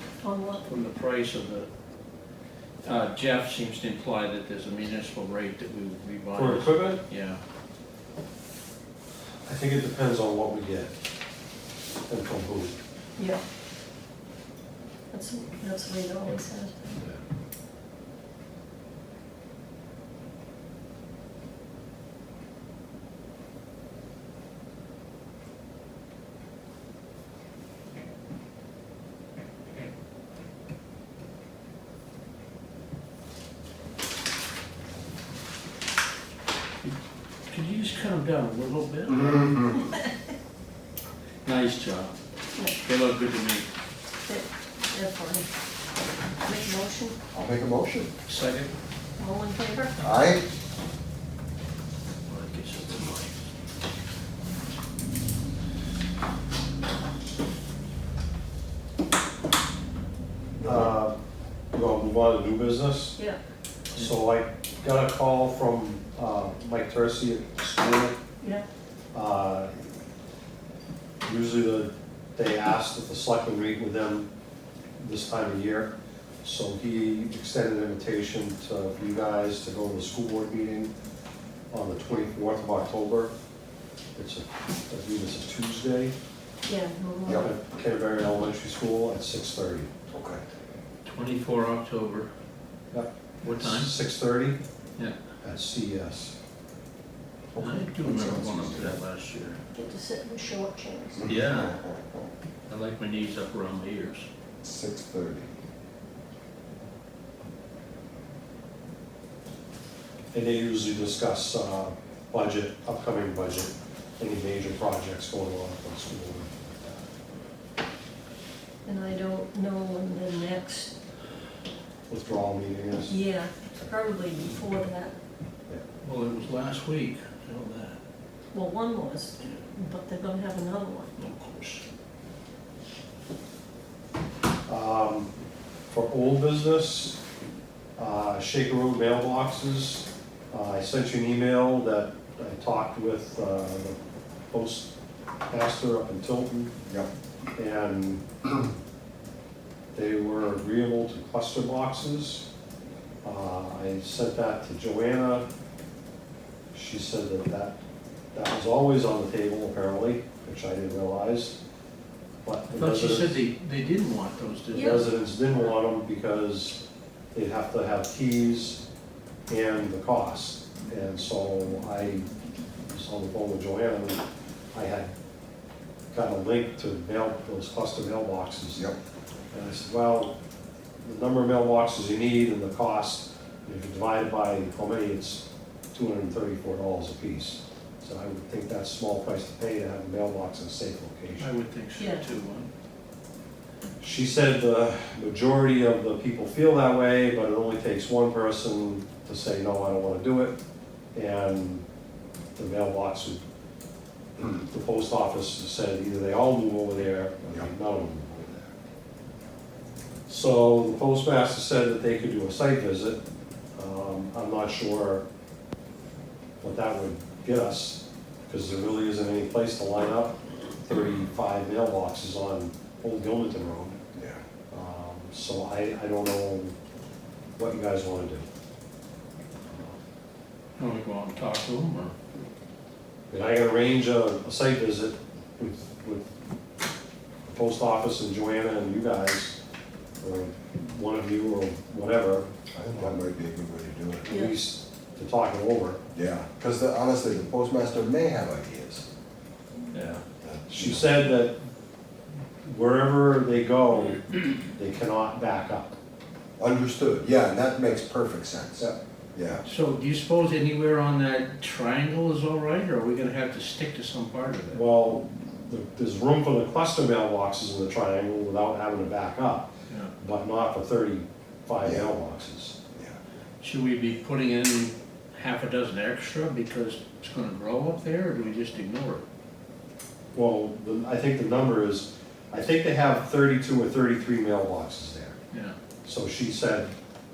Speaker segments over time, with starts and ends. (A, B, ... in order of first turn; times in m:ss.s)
0:00.2-0:00.6 A
0:00.6-0:01.7 B
0:02.8-0:07.4 B
0:06.3-0:07.0 C
0:09.4-0:10.9 C
0:12.1-0:12.7 C
0:13.2-0:13.4 A
0:15.1-0:17.0 A
0:37.5-0:39.8 B
0:39.2-0:39.7 D
0:41.4-0:42.1 B
0:42.8-0:43.7 B
0:44.2-0:45.5 A
0:46.4-0:47.2 A
0:47.3-0:48.1 D
0:48.2-0:48.8 B
0:49.2-0:50.1 A
0:50.0-0:50.4 D
0:52.2-0:53.4 B
1:00.6-1:01.2 C
1:01.7-1:03.2 C
1:03.9-1:08.2 C
1:09.1-1:10.0 C
1:11.2-1:14.3 C
1:15.0-1:15.9 C
1:16.4-1:20.9 C
1:21.7-1:23.3 C
1:24.2-1:26.1 C
1:26.6-1:27.5 A
1:27.4-1:29.9 C
1:30.1-1:30.4 D
1:31.0-1:32.3 B
1:32.9-1:34.6 C
1:33.4-1:33.9 B
1:35.4-1:36.3 C
1:37.5-1:39.0 D
1:37.6-1:39.6 B
1:39.7-1:41.2 A
1:41.2-1:42.0 D
1:41.2-1:41.8 B
1:42.7-1:44.3 B
1:44.6-1:45.5 D
1:50.3-1:57.1 C
1:58.8-2:00.9 A
2:02.1-2:03.1 C
2:03.1-2:05.1 A
2:06.0-2:08.0 B
2:08.5-2:11.1 A
2:11.2-2:11.8 B
2:14.7-2:15.3 C
2:15.9-2:17.2 C
2:18.0-2:23.9 C
2:24.5-2:24.9 C
2:25.5-2:26.7 C
2:27.6-2:28.2 C
2:29.9-2:32.4 C
2:33.2-2:35.4 C
2:36.7-2:37.8 C
2:38.3-2:41.6 C
2:42.4-2:43.4 C
2:42.7-2:45.0 B
2:44.7-2:45.0 A
2:44.8-2:46.8 C
2:47.3-2:48.8 C
2:49.5-2:52.3 C
2:52.9-2:55.1 C
2:56.1-2:58.9 C
2:59.5-3:00.3 C
3:01.0-3:11.5 C
3:11.4-3:12.7 B
3:12.0-3:12.2 A
3:14.0-3:20.6 C
3:21.1-3:21.8 C
3:22.6-3:23.4 C
3:24.4-3:28.7 C
3:30.3-3:33.2 C
3:33.8-3:35.2 C
3:36.6-3:44.0 C
3:44.7-3:46.7 C
3:47.6-3:48.4 C
3:50.8-3:52.1 B
3:53.3-3:56.3 C
3:57.4-3:59.6 C
4:00.2-4:03.2 C
4:02.7-4:04.4 D
4:04.2-4:06.0 C
4:04.3-4:04.5 A
4:06.1-4:09.0 D
4:09.9-4:10.2 B
4:10.4-4:11.1 D
4:10.7-4:11.6 C
4:12.6-4:16.0 C
4:16.6-4:19.6 D
4:19.6-4:24.8 B
4:24.7-4:29.7 C
4:30.2-4:32.8 C
4:31.8-4:32.1 D
4:33.6-4:39.2 B
4:40.3-4:45.4 C
4:46.0-4:46.9 C